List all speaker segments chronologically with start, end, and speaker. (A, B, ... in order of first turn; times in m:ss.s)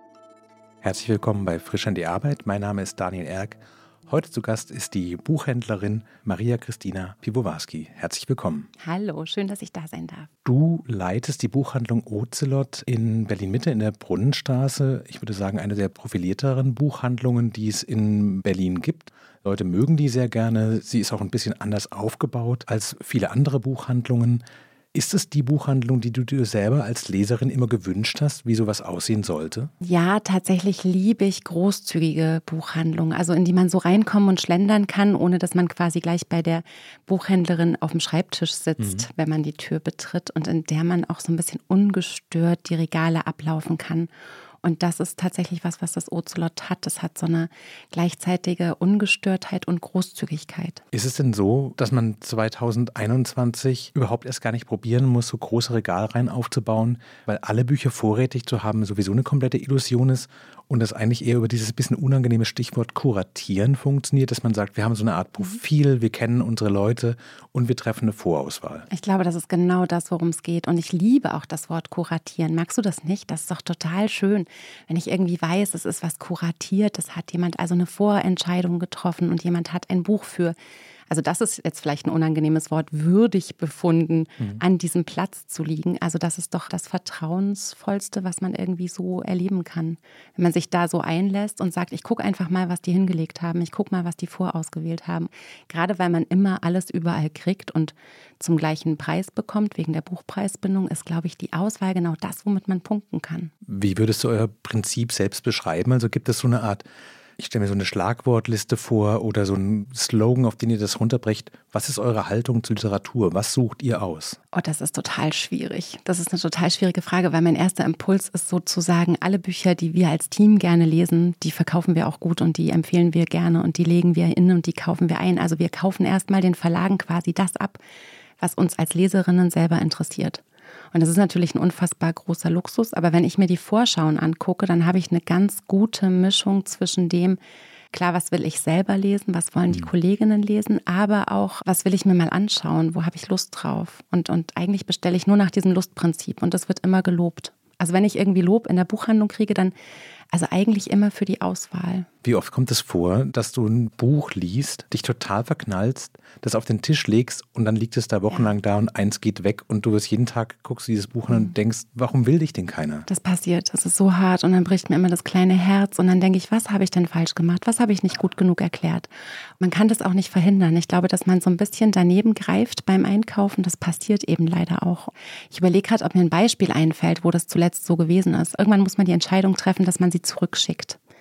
0:00.8-0:08.7 A
0:08.8-0:10.3 B
0:10.4-0:24.4 A
0:24.9-0:29.7 A
0:29.8-0:44.1 B
0:38.8-0:39.1 A
0:44.6-0:50.8 B
0:50.9-1:08.9 A
1:08.9-1:20.6 B
1:21.1-1:43.5 B
1:43.7-1:46.8 A
1:47.4-1:54.4 A
1:54.5-2:07.8 B
2:08.4-2:17.4 B
2:17.9-2:29.7 B
2:30.3-2:32.1 B
2:32.2-2:43.1 A
2:43.1-3:01.0 B